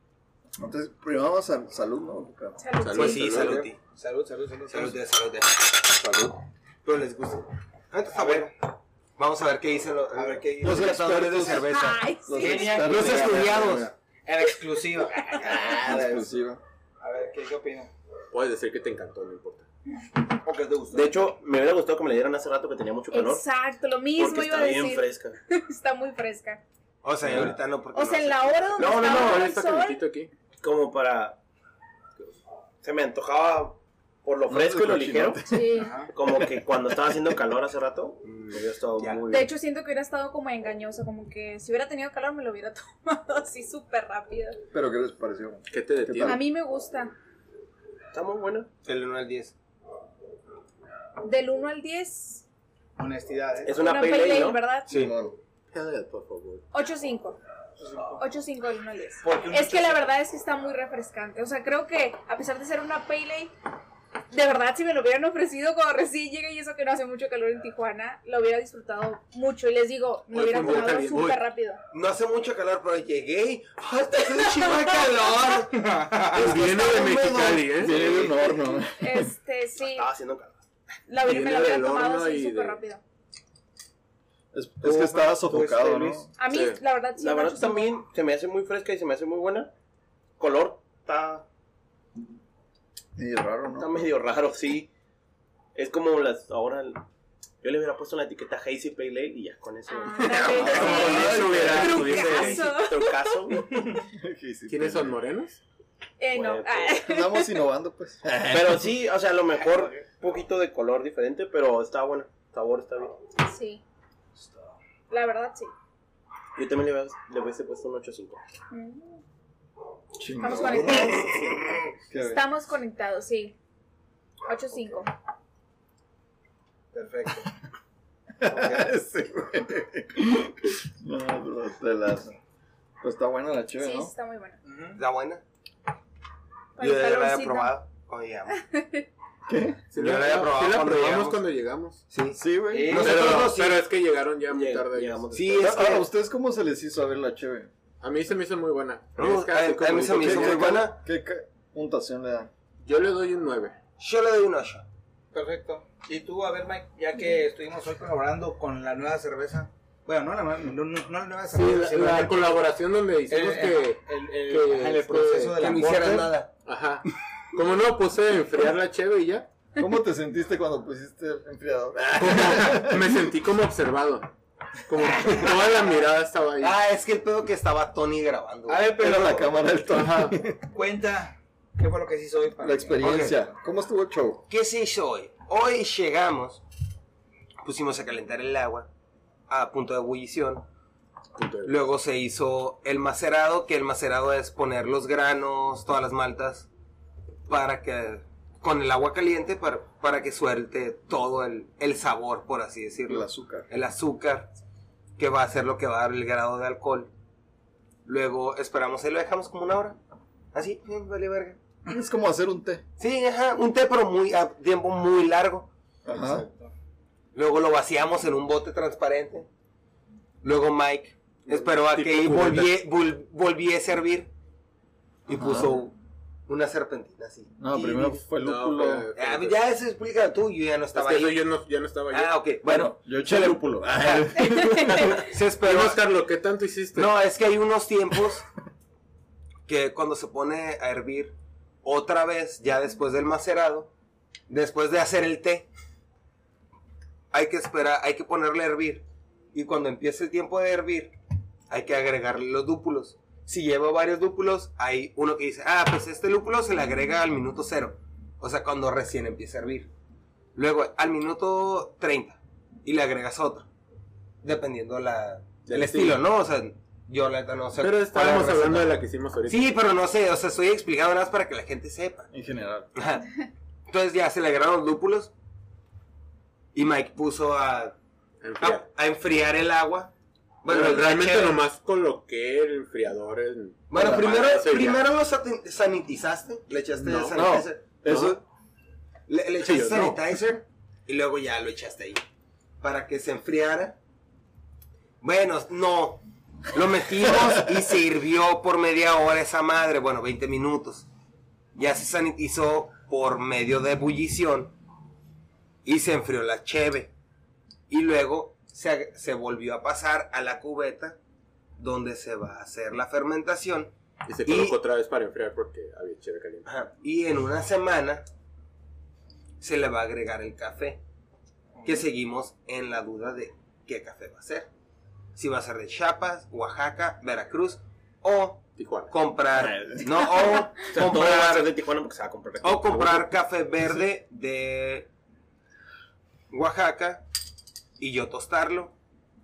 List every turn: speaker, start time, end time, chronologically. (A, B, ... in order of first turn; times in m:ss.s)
0:00.6-0:02.6 A
0:02.6-0:03.2 B
0:02.8-0:03.6 C
0:02.9-0:03.8 D
0:03.2-0:05.0 E
0:04.7-0:05.9 D
0:06.8-0:07.4 E
0:07.9-0:08.5 D
0:08.1-0:08.5 E
0:09.2-0:13.9 D
0:10.1-0:11.5 E
0:10.6-0:13.9 A
0:11.5-0:12.7 B
0:12.3-0:16.3 E
0:15.4-0:16.6 A
0:17.0-0:17.9 E
0:18.3-0:19.6 C
0:20.3-0:21.2 E
0:20.9-0:23.4 F
0:23.1-0:26.6 B
0:24.2-0:25.4 F
0:27.0-0:29.1 D
0:27.9-0:30.0 B
0:28.8-0:29.5 F
0:28.9-0:30.3 C
0:30.6-0:31.4 F
0:32.8-0:35.4 F
0:34.5-0:35.7 A
0:35.5-0:36.0 B
0:35.8-0:36.1 E
0:36.1-0:39.5 F
0:39.3-0:44.6 B
0:44.7-0:46.4 A
0:45.7-0:46.4 C
0:46.2-0:47.1 B
0:48.1-0:48.7 F
0:48.8-0:49.5 D
0:51.2-0:52.4 B
0:53.0-0:53.8 E
0:53.6-0:54.6 F
0:53.7-0:54.9 B
0:54.9-0:55.4 A
0:55.7-0:56.6 C
0:56.7-0:57.4 B
0:57.8-0:58.2 E
0:58.2-1:03.5 B
0:59.2-1:00.1 E
1:04.3-1:11.8 B
1:10.3-1:11.4 C
1:11.9-1:15.8 D
1:15.7-1:16.6 E
1:16.3-1:18.3 C
1:16.4-1:19.3 A
1:18.7-1:20.1 B
1:19.8-1:20.6 F
1:21.1-1:23.0 B
1:21.2-1:22.8 C
1:24.5-1:26.3 A
1:24.8-1:26.3 E
1:26.4-1:27.9 B
1:26.4-1:26.8 C
1:27.2-1:29.7 F
1:30.4-1:31.4 F
1:33.2-1:34.0 A
1:33.7-1:34.9 F
1:35.7-1:37.0 F
1:37.6-1:43.9 F
1:39.9-1:43.5 B
1:40.2-1:42.6 C
1:40.5-1:42.0 A
1:44.1-1:45.2 A
1:44.7-1:45.6 C
1:46.2-1:47.6 B
1:46.3-1:47.0 F
1:47.0-1:48.9 A
1:48.5-1:53.2 F
1:53.4-1:53.8 B
1:54.4-1:54.7 E
1:55.1-1:55.7 B
1:56.6-1:58.4 F
1:58.7-1:59.2 B
2:00.2-2:01.2 A
2:00.4-2:01.3 B
2:02.1-2:02.4 A
2:02.2-2:03.6 B
2:04.4-2:05.1 B
2:06.9-2:07.5 E
2:08.4-2:12.4 A
2:08.4-2:08.9 E
2:13.0-2:14.1 A
2:13.8-2:14.6 B
2:14.6-2:15.0 E
2:15.0-2:15.4 D
2:16.8-2:17.7 B
2:16.8-2:18.6 D
2:18.5-2:19.0 B
2:19.4-2:19.8 A
2:19.9-2:22.0 C
2:19.9-2:21.4 D
2:22.1-2:23.8 D
2:22.3-2:23.1 A
2:22.7-2:23.0 E
2:22.8-2:25.6 C
2:24.5-2:26.0 F
2:25.3-2:26.1 D
2:25.6-2:27.7 A
2:28.0-2:30.8 C
2:29.2-2:31.0 D
2:30.2-2:32.5 A
2:32.8-2:33.7 C
2:34.0-2:34.8 D
2:35.3-2:42.6 E
2:41.5-2:45.9 C
2:43.3-2:46.4 E
2:45.6-2:46.5 D
2:46.6-2:49.5 C
2:49.8-2:53.3 A
2:52.2-2:54.3 C
2:54.9-2:56.8 C
2:55.1-2:55.8 D
2:56.6-2:59.4 D
2:58.7-2:59.7 E
2:59.0-3:00.6 A
2:59.8-3:00.4 C
3:00.6-3:03.5 E
3:02.6-3:04.4 A
3:03.0-3:03.4 D
3:04.5-3:06.6 D
3:07.6-3:08.9 D
3:09.5-3:10.6 D
3:11.4-3:11.7 C
3:11.6-3:16.7 D
3:17.5-3:24.5 D
3:23.1-3:23.7 A
3:25.2-3:27.1 D
3:28.0-3:30.0 D
3:30.5-3:31.6 D
3:31.9-3:32.8 A
3:33.0-3:35.7 D
3:36.0-3:36.4 A
3:36.1-3:36.7 E
3:37.3-3:39.5 D
3:40.4-3:44.3 D
3:41.5-3:42.7 C
3:45.3-3:46.0 D
3:45.3-3:45.8 A
3:46.5-3:48.2 D
3:47.6-3:49.1 A
3:48.3-3:49.6 C
3:49.1-3:51.5 D
3:50.9-3:52.4 C
3:52.1-3:56.0 D
3:52.6-3:55.2 A
3:54.4-3:54.8 B
3:55.1-3:57.1 C
3:56.9-3:58.4 D
3:59.6-4:03.9 D
4:04.5-4:05.7 D
4:07.3-4:11.1 D
4:11.7-4:19.9 D
4:20.5-4:23.7 D
4:24.4-4:32.3 D
4:25.6-4:26.2 C
4:27.8-4:29.7 C
4:32.3-4:32.9 A
4:32.9-4:33.3 D
4:33.9-4:35.3 D
4:36.7-4:38.0 D
4:38.4-4:38.8 C
4:38.6-4:40.1 D
4:40.6-4:41.6 D
4:40.7-4:45.1 C
4:43.9-4:48.0 D
4:47.0-4:48.4 A
4:47.1-4:47.4 C
4:48.0-4:48.4 C
4:49.3-4:52.2 D
4:49.6-4:50.2 C
4:52.8-4:54.0 D
4:55.2-5:01.1 D
5:01.7-5:04.7 D
5:05.8-5:07.1 D
5:07.9-5:11.2 D
5:11.8-5:13.9 D
5:14.2-5:16.7 C
5:14.4-5:14.8 D
5:16.6-5:18.2 D
5:19.6-5:21.0 D
5:21.8-5:24.7 D
5:25.3-5:31.7 D
5:28.8-5:29.1 C
5:29.6-5:33.2 F
5:32.6-5:35.1 D
5:36.5-5:37.2 D
5:38.0-5:38.9 D